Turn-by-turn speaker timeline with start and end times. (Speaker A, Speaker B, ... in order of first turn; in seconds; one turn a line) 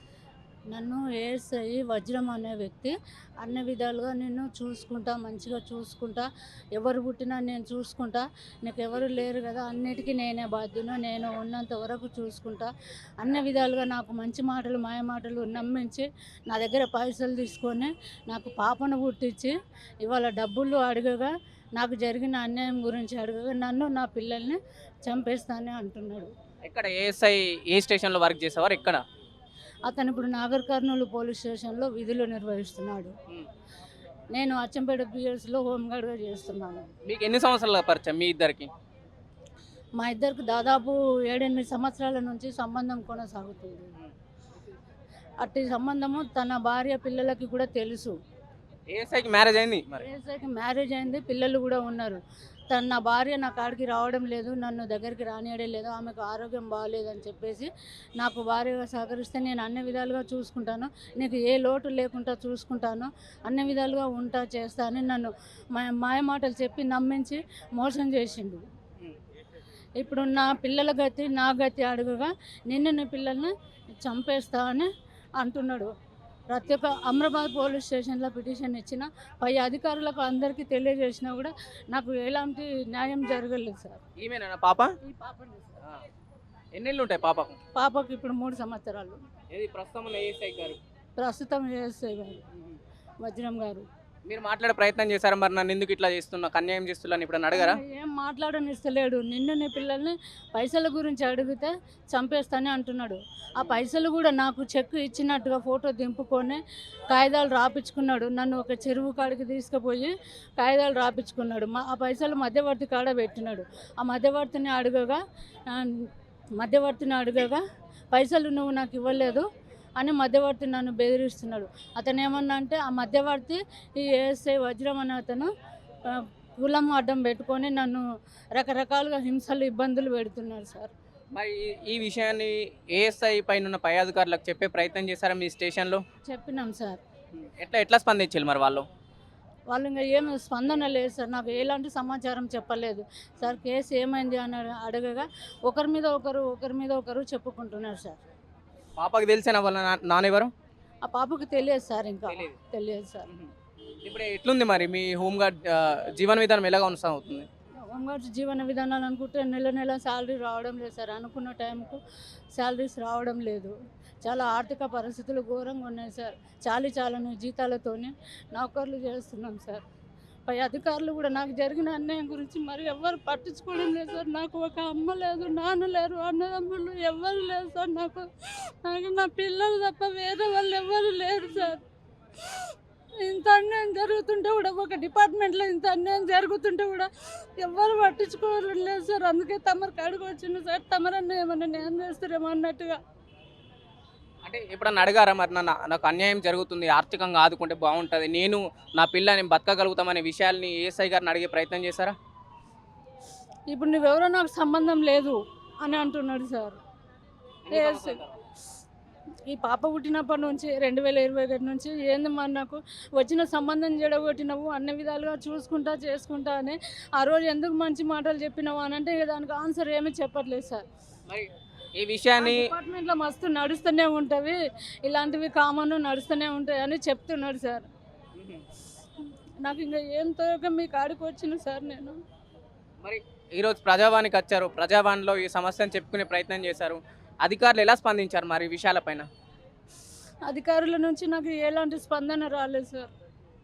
Speaker A: 0.7-26.3
Speaker B: 26.6-29.0
Speaker A: 29.9-33.1
Speaker A: 34.3-36.9
Speaker B: 37.0-38.7
Speaker A: 40.0-43.9
Speaker A: 45.4-48.1
Speaker B: 48.9-50.0
Speaker A: 50.0-52.2
Speaker A: 52.7-68.6
Speaker A: 70.0-75.9
Speaker A: 76.5-84.0
Speaker B: 84.2-84.9
Speaker A: 85.0-85.8
Speaker B: 86.7-87.6
Speaker A: 87.7-89.2
Speaker B: 89.5-90.8
Speaker A: 91.2-92.4
Speaker A: 93.2-93.8
Speaker B: 94.3-97.8
Speaker A: 97.5-119.5
Speaker A: 120.0-125.5
Speaker A: 126.1-128.0
Speaker A: 128.6-130.9
Speaker B: 131.3-136.0
Speaker A: 136.3-137.0
Speaker B: 137.4-138.8
Speaker A: 139.7-148.2
Speaker B: 149.0-150.5
Speaker A: 151.1-153.3
Speaker B: 152.3-152.6
Speaker B: 154.0-157.5
Speaker A: 157.8-162.0
Speaker A: 162.5-169.8
Speaker A: 170.5-181.8
Speaker A: 183.2-193.0
Speaker B: 194.4-202.1
Speaker A: 203.7-206.8
Speaker B: 207.7-208.3
Speaker A: 207.7-208.2
Speaker A: 209.5-220.8
Speaker B: 221.3-222.7
Speaker A: 222.4-227.9
Speaker B: 228.3-228.6
Speaker A: 229.6-232.2
Speaker B: 233.0-239.3
Speaker A: 240.5-243.1